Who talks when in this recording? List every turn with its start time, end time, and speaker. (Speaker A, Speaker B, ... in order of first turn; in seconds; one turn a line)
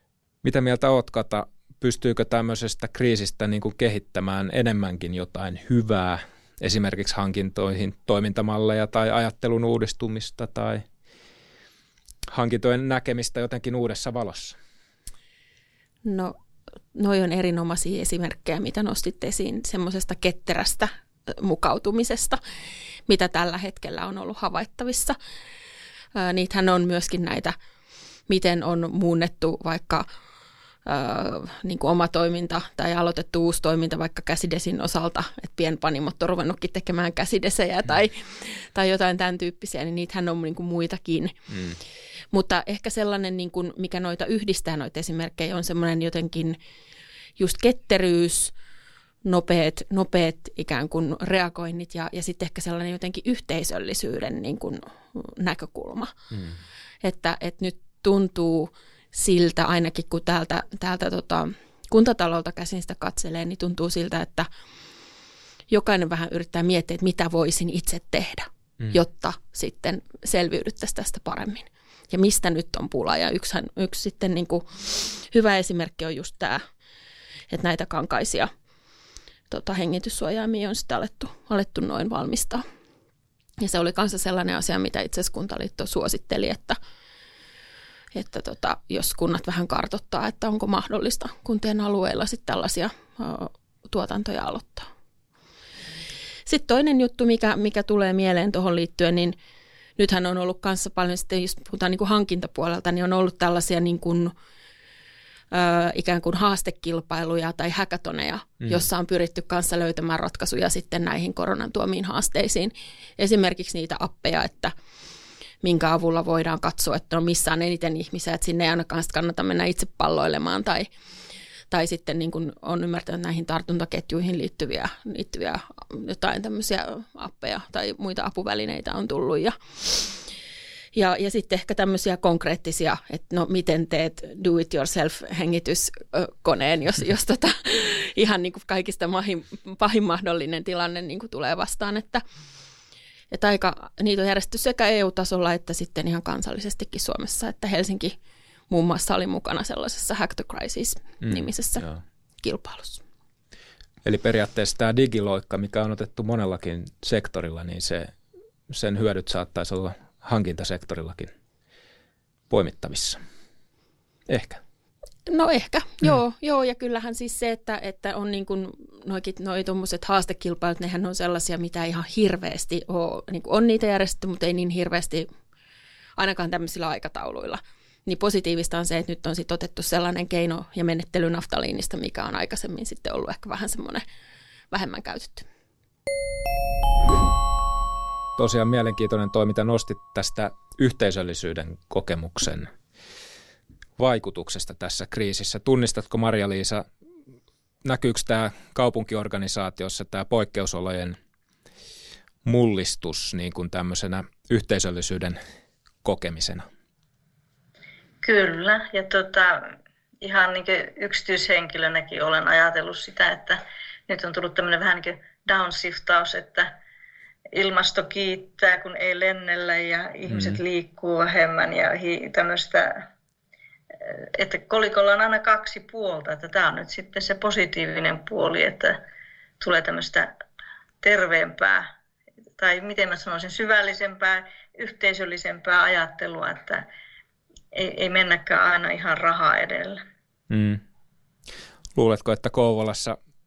Speaker A: 0.4-10.8
Speaker A: 12.3-14.6
Speaker B: 16.1-16.4
Speaker B: 16.9-22.4
Speaker B: 23.1-25.2
Speaker B: 26.1-27.6
Speaker B: 28.3-30.1
Speaker B: 30.9-41.5
Speaker A: 41.5-41.8
Speaker B: 42.3-46.6
Speaker B: 47.4-48.5
Speaker B: 49.2-56.1
Speaker B: 57.0-64.5
Speaker B: 65.7-76.6
Speaker B: 77.5-78.5
Speaker B: 79.5-82.6
Speaker B: 83.6-86.8
Speaker B: 88.1-94.9
Speaker B: 96.5-99.4
Speaker B: 100.0-104.3
Speaker B: 105.5-114.7
Speaker B: 115.6-120.9
Speaker B: 121.7-130.2
Speaker B: 130.9-142.2
Speaker B: 143.3-148.2
Speaker B: 148.7-151.9
Speaker A: 151.2-152.0
Speaker B: 152.4-153.0
Speaker A: 154.0-158.2
Speaker A: 158.7-161.3
Speaker A: 162.5-163.2
Speaker A: 164.3-164.6
Speaker B: 165.3-175.3
Speaker B: 176.2-184.0
Speaker B: 184.7-185.5
Speaker A: 188.4-192.7
Speaker A: 194.0-196.8
Speaker A: 197.8-201.2
Speaker A: 202.4-205.4
Speaker A: 206.0-206.7
Speaker C: 208.2-209.7
Speaker C: 210.2-216.7
Speaker C: 217.5-223.1
Speaker A: 220.3-220.6
Speaker C: 224.0-229.0
Speaker C: 229.6-230.3
Speaker C: 231.0-231.9
Speaker C: 232.6-236.8
Speaker C: 237.7-240.0
Speaker A: 240.5-240.8
Speaker A: 241.9-243.2